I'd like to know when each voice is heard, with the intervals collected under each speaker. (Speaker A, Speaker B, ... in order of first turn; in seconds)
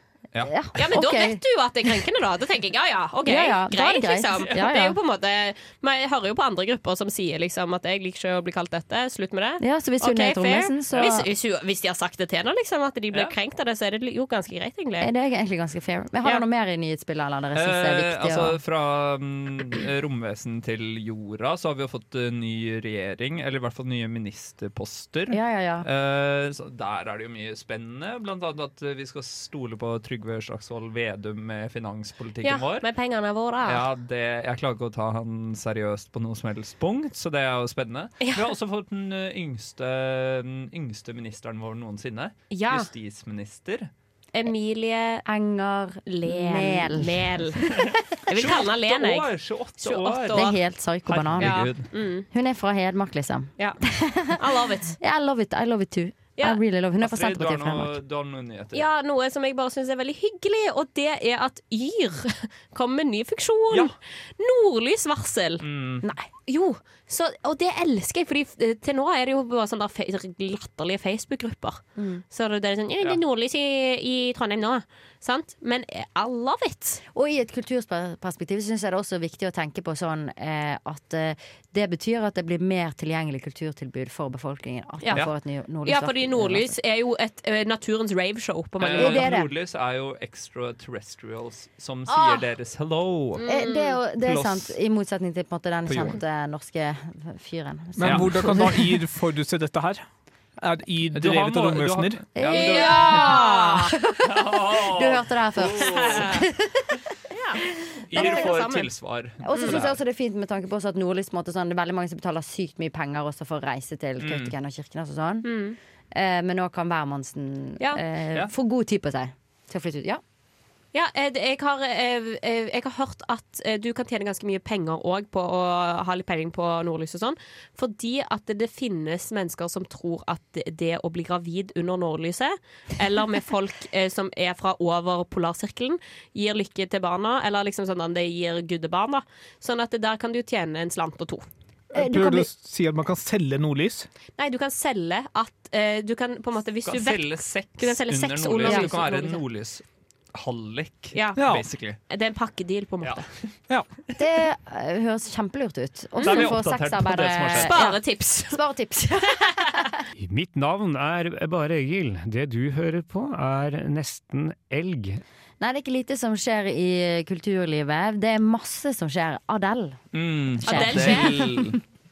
Speaker A: 0.5-1.4, 3.2-5.0, 9.6-11.3, 15.0-18.6, 25.3-25.9, 45.2-47.4, 50.3-51.5, 52.3-54.4, 54.9-57.9, 72.0-72.2, 77.1-86.8, 89.0-89.5, 92.1-92.3, 93.5-98.9, 102.3-107.0, 108.2-108.4, 109.4-115.5, 116.1-120.2, 141.9-142.5, 148.6-148.9, 154.1-159.9, 165.6-170.0, 170.6-171.7
Speaker B: 0.8-15.1, 32.4-33.8, 38.2-38.5, 42.5-42.9, 44.3-45.2, 46.1-47.6, 48.2-49.3, 49.8-50.5, 51.4-52.3, 54.4-55.0, 58.7-65.6, 66.5-77.0, 85.8-89.3, 93.3-94.0, 102.5-103.9, 105.8-106.4, 107.3-108.9, 109.5-109.8, 115.4-115.8, 120.9-141.4, 144.4-149.4, 151.1-151.4, 152.1-153.2, 156.2-156.5, 157.6-158.6, 170.7-171.4
Speaker C: 17.5-32.9, 33.6-43.9, 48.3-51.9, 57.0-58.8, 65.6-66.0, 88.8-93.4, 94.2-94.7, 95.9-96.2, 98.0-98.5, 101.1-103.4, 104.2-106.3, 108.1-110.0, 114.2-114.5, 146.8-149.8, 150.3-152.0, 156.2-157.7, 170.1-171.8
Speaker D: 98.0-100.0, 100.6-102.2, 141.9-144.1, 151.4-151.6
Speaker E: 160.1-165.2